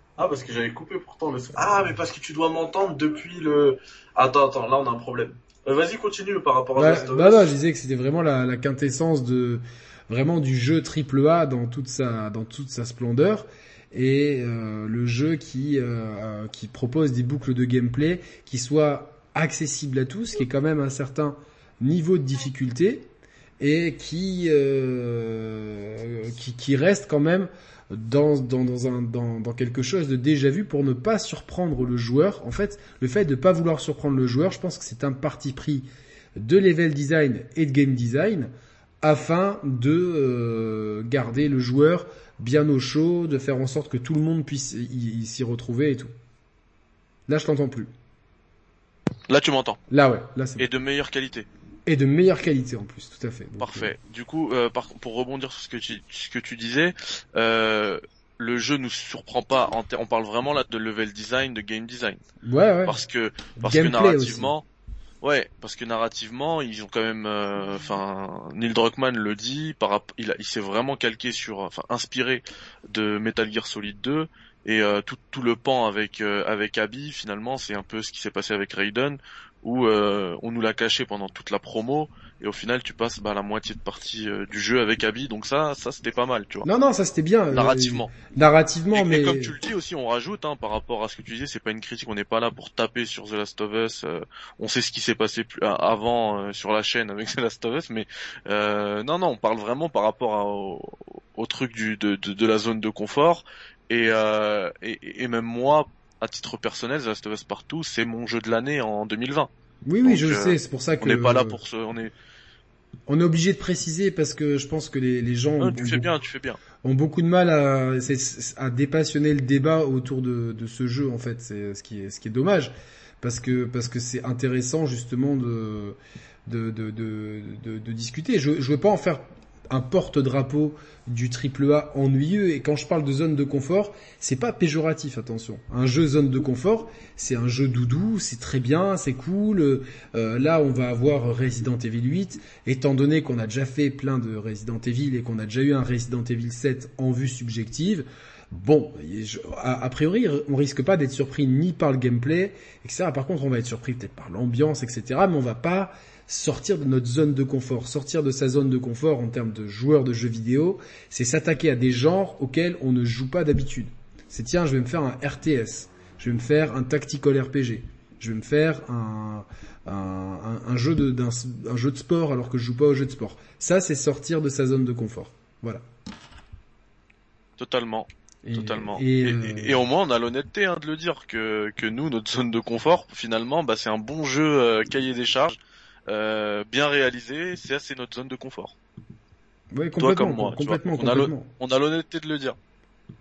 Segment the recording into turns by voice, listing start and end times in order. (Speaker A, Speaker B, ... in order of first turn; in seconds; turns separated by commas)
Speaker A: 0.2-7.5, Speaker B: 6.8-23.1, Speaker B: 23.6-35.9, Speaker B: 36.4-46.1, Speaker B: 47.3-47.9, Speaker A: 49.3-49.8, Speaker B: 49.9-50.7, Speaker A: 50.6-51.5, Speaker B: 51.9-53.9, Speaker A: 53.6-62.2, Speaker B: 62.4-63.0, Speaker A: 62.9-64.6, Speaker B: 63.6-64.5, Speaker A: 65.2-86.7, Speaker B: 86.6-89.5, Speaker A: 87.5-88.1, Speaker A: 88.9-109.5, Speaker B: 109.8-111.6, Speaker A: 110.0-112.1, Speaker B: 113.1-116.1, Speaker A: 115.6-116.6, Speaker B: 116.8-175.8, Speaker A: 177.6-188.8, Speaker B: 178.4-179.8, Speaker B: 189.7-191.5, Speaker A: 190.0-192.6